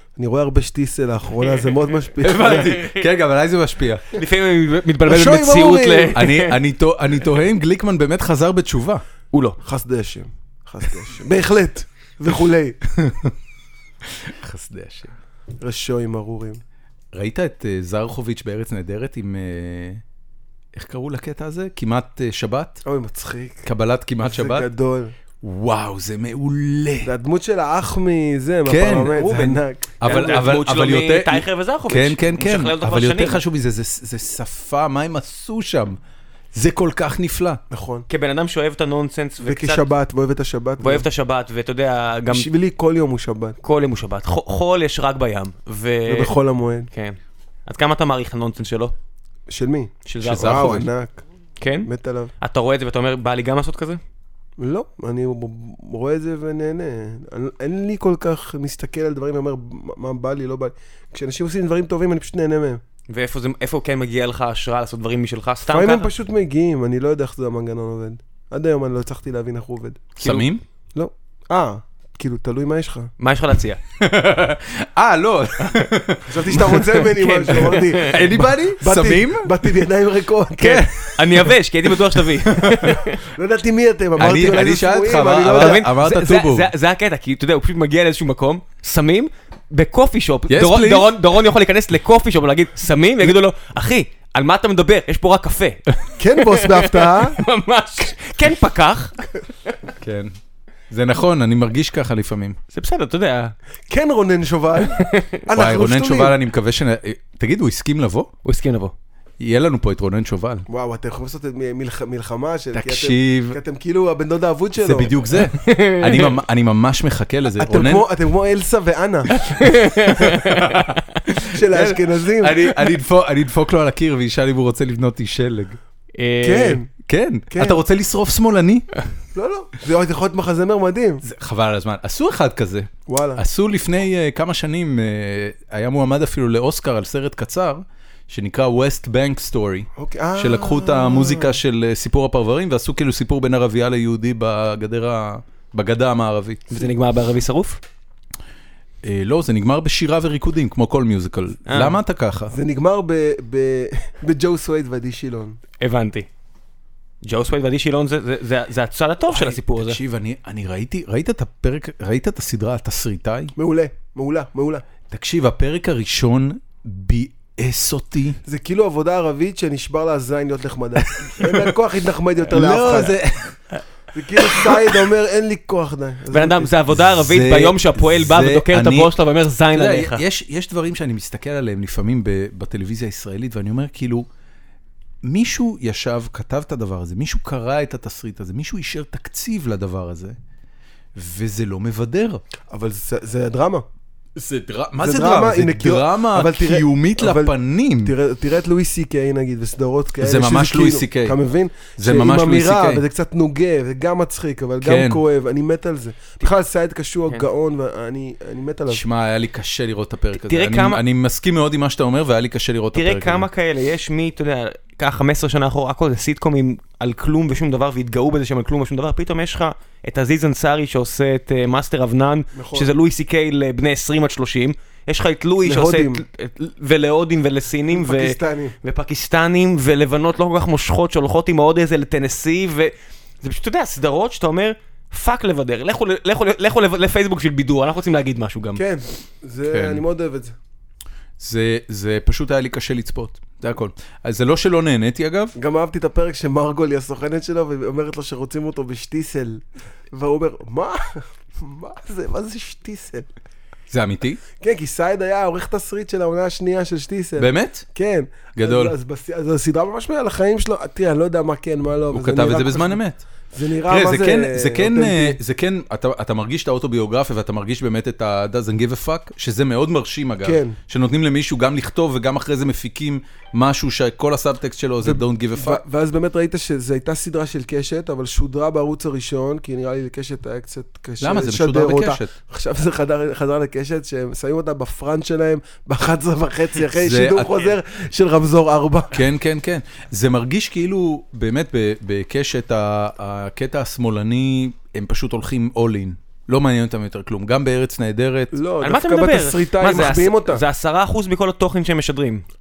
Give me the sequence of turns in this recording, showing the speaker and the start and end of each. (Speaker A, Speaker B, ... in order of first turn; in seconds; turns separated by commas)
Speaker A: 0.2-2.8, Speaker B: 2.2-4.1, Speaker C: 2.2-3.1, Speaker C: 4.1-6.6, Speaker B: 5.1-9.0, Speaker A: 5.2-6.1, Speaker A: 9.6-12.8, Speaker B: 12.9-13.3, Speaker B: 14.1-15.1, Speaker A: 15.6-16.6, Speaker B: 17.1-20.0, Speaker B: 20.8-22.8, Speaker A: 22.9-23.7, Speaker B: 23.6-24.7, Speaker A: 24.2-25.1, Speaker B: 25.4-27.1, Speaker A: 27.0-30.2, Speaker B: 28.6-29.4, Speaker C: 29.3-33.4, Speaker B: 30.0-36.0, Speaker B: 36.5-37.6, Speaker A: 37.7-38.1, Speaker C: 38.1-39.9, Speaker A: 39.4-41.1, Speaker C: 40.8-42.5, Speaker A: 42.3-43.6, Speaker C: 43.6-46.3, Speaker A: 46.1-46.9, Speaker C: 46.9-48.9, Speaker A: 49.5-51.2, Speaker C: 50.1-50.9, Speaker B: 50.2-50.9, Speaker C: 51.6-51.9, Speaker A: 51.9-52.3, Speaker C: 52.4-54.0, Speaker A: 54.6-62.8, Speaker C: 63.1-66.1, Speaker A: 65.7-70.2, Speaker C: 70.2-70.5, Speaker B: 70.2-70.6, Speaker A: 71.0-73.1, Speaker C: 73.2-73.8, Speaker B: 74.0-77.0, Speaker A: 76.3-80.9, Speaker C: 77.0-78.3, Speaker B: 77.6-79.7, Speaker B: 80.6-81.3, Speaker C: 80.6-83.2, Speaker B: 82.4-82.9, Speaker A: 83.1-85.8, Speaker B: 84.2-86.7, Speaker C: 85.5-99.2, Speaker B: 90.5-91.1, Speaker A: 96.2-97.4, Speaker B: 100.0-100.3, Speaker B: 100.9-102.6, Speaker C: 102.7-103.5, Speaker A: 103.9-106.4, Speaker C: 105.0-105.4, Speaker B: 105.5-108.3, Speaker C: 108.5-108.9, Speaker B: 109.4-110.7, Speaker A: 110.7-115.2, Speaker B: 112.7-113.6, Speaker B: 114.8-118.0, Speaker C: 115.5-116.4, Speaker A: 117.6-119.4, Speaker C: 119.4-121.2, Speaker B: 120.5-125.8, Speaker A: 121.5-122.8, Speaker C: 126.2-126.8, Speaker A: 126.4-126.9, Speaker B: 127.1-128.9, Speaker A: 127.5-127.8, Speaker A: 129.3-131.2, Speaker B: 131.2-146.7, Speaker A: 133.1-133.4, Speaker A: 140.0-141.6, Speaker C: 146.7-147.8, Speaker B: 149.0-152.5, Speaker C: 151.7-152.0, Speaker A: 152.5-155.6, Speaker C: 155.8-156.3, Speaker C: 157.2-160.0, Speaker B: 159.3-163.5, Speaker A: 163.6-164.8, Speaker B: 165.1-168.4, Speaker A: 168.4-173.2, Speaker B: 171.0-171.7, Speaker B: 172.5-173.8, Speaker A: 174.1-176.7, Speaker B: 174.4-175.0, Speaker C: 176.3-180.2, Speaker B: 177.0-179.1, Speaker B: 179.7-184.3, Speaker B: 185.2-190.4, Speaker B: 191.2-192.4, Speaker A: 192.7-193.8, Speaker B: 194.4-198.1, Speaker A: 195.0-209.0, Speaker B: 200.2-201.4, Speaker B: 202.0-203.0, Speaker B: 204.8-205.2, Speaker B: 208.9-213.5, Speaker C: 210.3-211.0, Speaker C: 212.9-238.8, Speaker A: 222.6-222.9, Speaker A: 225.7-226.2, Speaker A: 227.9-228.8, Speaker A: 238.8-240.6, Speaker B: 239.7-240.0, Speaker B: 241.4-245.6, Speaker A: 245.6-253.3, Speaker B: 253.9-254.4, Speaker A: 254.6-263.0, Speaker B: 257.4-257.9, Speaker B: 258.6-258.9, Speaker B: 262.1-263.2, Speaker A: 263.5-265.4, Speaker B: 263.9-275.8, Speaker A: 270.4-270.8, Speaker A: 275.0-289.2, Speaker B: 281.2-282.3, Speaker B: 286.9-287.7, Speaker B: 289.1-298.5, Speaker A: 298.5-300.6, Speaker C: 298.8-302.4